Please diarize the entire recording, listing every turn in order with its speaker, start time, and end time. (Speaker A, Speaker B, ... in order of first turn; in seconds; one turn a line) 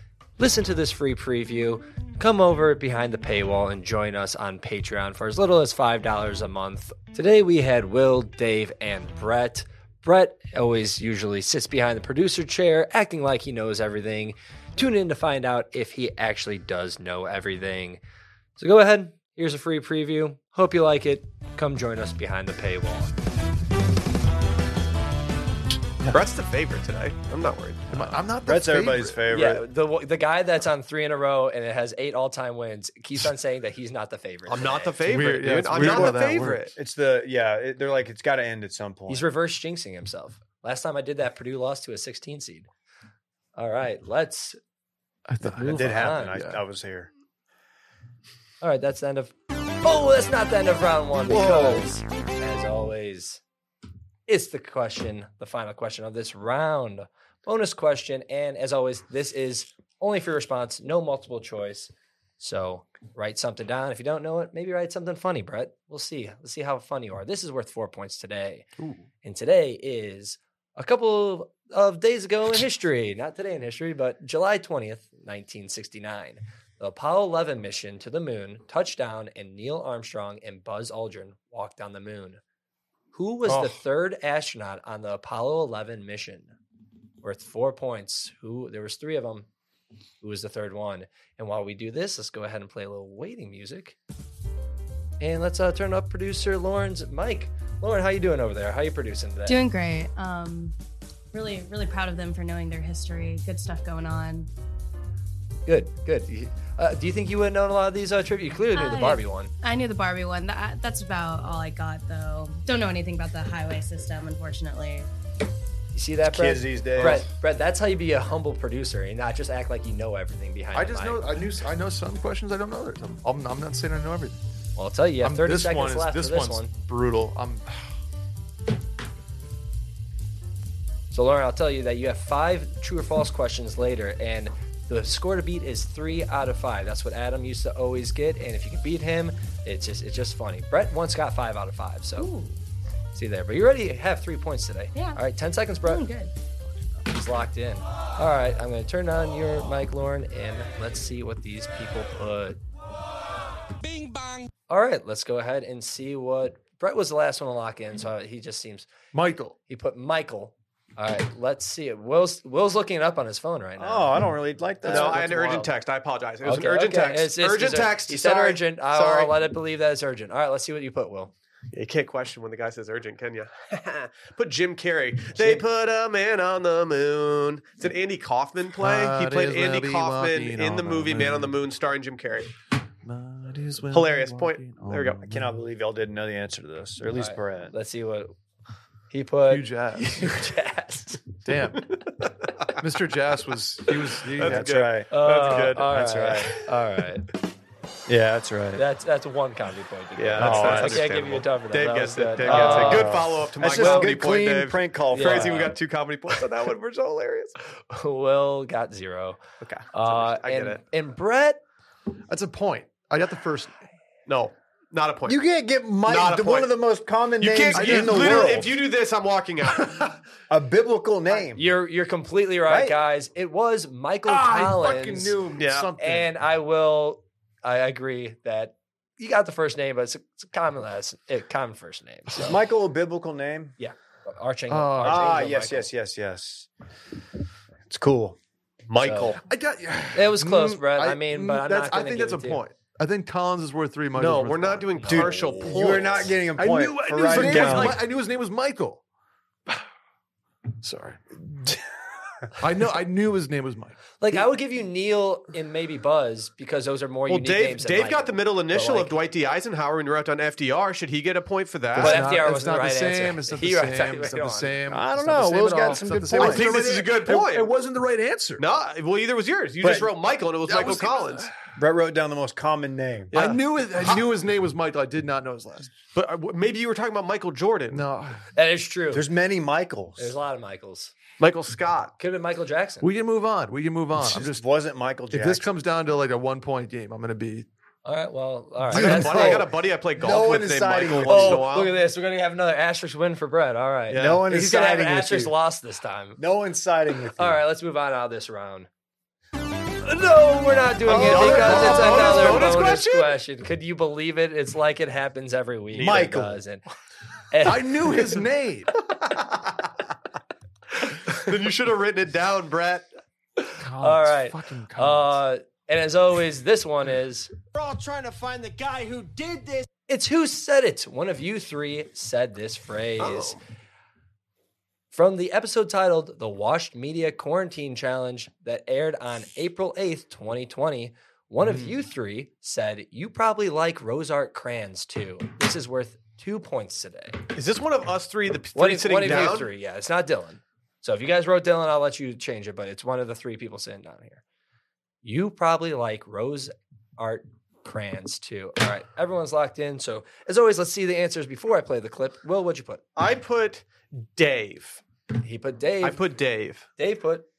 Speaker A: 0.4-18.0
Speaker A: 18.6-23.1
Speaker B: 26.1-28.2
Speaker C: 27.9-29.2
Speaker D: 28.4-29.6
Speaker A: 29.3-35.0
Speaker B: 34.5-36.7
Speaker C: 35.0-36.7
Speaker D: 35.7-39.2
Speaker A: 39.1-42.7
Speaker A: 43.5-44.6
Speaker C: 45.3-46.6
Speaker A: 45.5-46.4
Speaker D: 45.6-47.1
Speaker A: 48.6-53.4
Speaker D: 51.3-51.9
Speaker A: 54.3-68.6
Speaker A: 69.2-82.4
Speaker A: 83.1-86.5
Speaker A: 87.2-89.5
Speaker A: 90.2-94.0
Speaker A: 95.2-99.6
Speaker E: 99.5-100.7
Speaker E: 101.3-104.5
Speaker A: 105.7-109.5
Speaker E: 108.7-115.1
Speaker A: 115.9-121.3
Speaker D: 116.2-117.2
Speaker C: 120.7-124.4
Speaker A: 124.8-126.7
Speaker C: 125.2-127.9
Speaker A: 131.1-142.3
Speaker E: 142.2-142.6
Speaker A: 143.1-146.0
Speaker E: 144.9-145.2
Speaker E: 145.8-146.3
Speaker A: 147.1-152.6
Speaker F: 153.9-154.3
Speaker A: 154.7-158.9
Speaker C: 159.1-159.5
Speaker A: 159.7-164.2
Speaker D: 163.8-165.7
Speaker B: 164.8-169.3
Speaker A: 164.8-165.6
Speaker A: 166.4-171.3
Speaker B: 171.7-182.5
Speaker C: 178.8-181.6
Speaker C: 183.0-185.6
Speaker B: 183.9-185.3
Speaker D: 185.3-187.7
Speaker A: 187.1-188.3
Speaker A: 189.1-191.2
Speaker C: 189.5-190.5
Speaker C: 191.4-191.9
Speaker C: 192.8-194.7
Speaker B: 194.3-195.9
Speaker D: 194.4-195.1
Speaker A: 195.1-197.3
Speaker D: 195.9-196.6
Speaker D: 198.1-198.8
Speaker A: 198.8-204.1
Speaker B: 200.2-207.6
Speaker D: 200.4-201.1
Speaker D: 202.4-205.7
Speaker C: 202.5-202.8
Speaker A: 205.1-205.7
Speaker A: 207.9-209.4
Speaker B: 209.6-210.8
Speaker A: 209.9-211.6
Speaker C: 212.3-213.8
Speaker B: 214.3-215.4
Speaker D: 215.3-218.7
Speaker B: 216.1-216.7
Speaker B: 217.4-220.1
Speaker C: 217.7-218.6
Speaker C: 219.7-220.1
Speaker D: 220.5-221.6
Speaker A: 221.3-225.4
Speaker D: 222.7-223.0
Speaker C: 224.2-226.3
Speaker B: 225.5-225.9
Speaker A: 226.0-232.5
Speaker D: 232.4-233.8
Speaker A: 233.8-235.9
Speaker C: 234.7-235.4
Speaker D: 235.0-236.7
Speaker D: 237.9-238.4
Speaker B: 238.9-239.4
Speaker A: 239.0-239.4
Speaker C: 239.4-249.0
Speaker A: 240.1-242.6
Speaker B: 244.1-246.3
Speaker A: 244.9-245.4
Speaker D: 245.1-248.0
Speaker B: 247.3-247.9
Speaker C: 250.8-251.7
Speaker C: 252.6-254.0
Speaker A: 254.2-259.1
Speaker B: 257.3-262.2
Speaker C: 261.9-268.6
Speaker A: 262.0-264.8
Speaker D: 264.9-266.8
Speaker B: 266.3-267.7
Speaker B: 268.6-271.5
Speaker D: 269.8-270.1
Speaker C: 270.6-271.5
Speaker D: 271.7-273.4
Speaker B: 273.3-274.2
Speaker C: 273.3-275.9
Speaker B: 276.1-278.0
Speaker C: 277.9-278.4
Speaker A: 278.5-279.2
Speaker D: 279.1-280.3
Speaker A: 280.2-281.1
Speaker B: 281.4-282.1
Speaker A: 282.2-283.1
Speaker C: 283.0-284.6
Speaker D: 284.1-285.7
Speaker C: 285.3-287.7
Speaker A: 288.0-289.6
Speaker B: 288.9-292.0
Speaker D: 288.9-291.6
Speaker A: 291.2-296.4
Speaker B: 294.1-294.4
Speaker D: 294.1-295.5
Speaker D: 296.4-297.6
Speaker A: 297.4-298.9
Speaker A: 300.0-306.8
Speaker C: 301.1-303.0
Speaker B: 301.1-303.3
Speaker D: 305.9-306.6
Speaker A: 307.5-308.2
Speaker C: 307.6-308.9
Speaker B: 309.2-309.4
Speaker B: 311.1-313.1
Speaker A: 313.6-317.6
Speaker C: 313.8-315.4
Speaker F: 317.9-319.7
Speaker A: 320.0-323.6
Speaker B: 323.2-323.6
Speaker A: 325.1-337.4
Speaker B: 337.5-339.7
Speaker A: 338.7-344.4
Speaker A: 345.2-353.0
Speaker B: 353.1-355.0
Speaker A: 355.4-356.2
Speaker B: 356.0-356.8
Speaker A: 357.0-357.4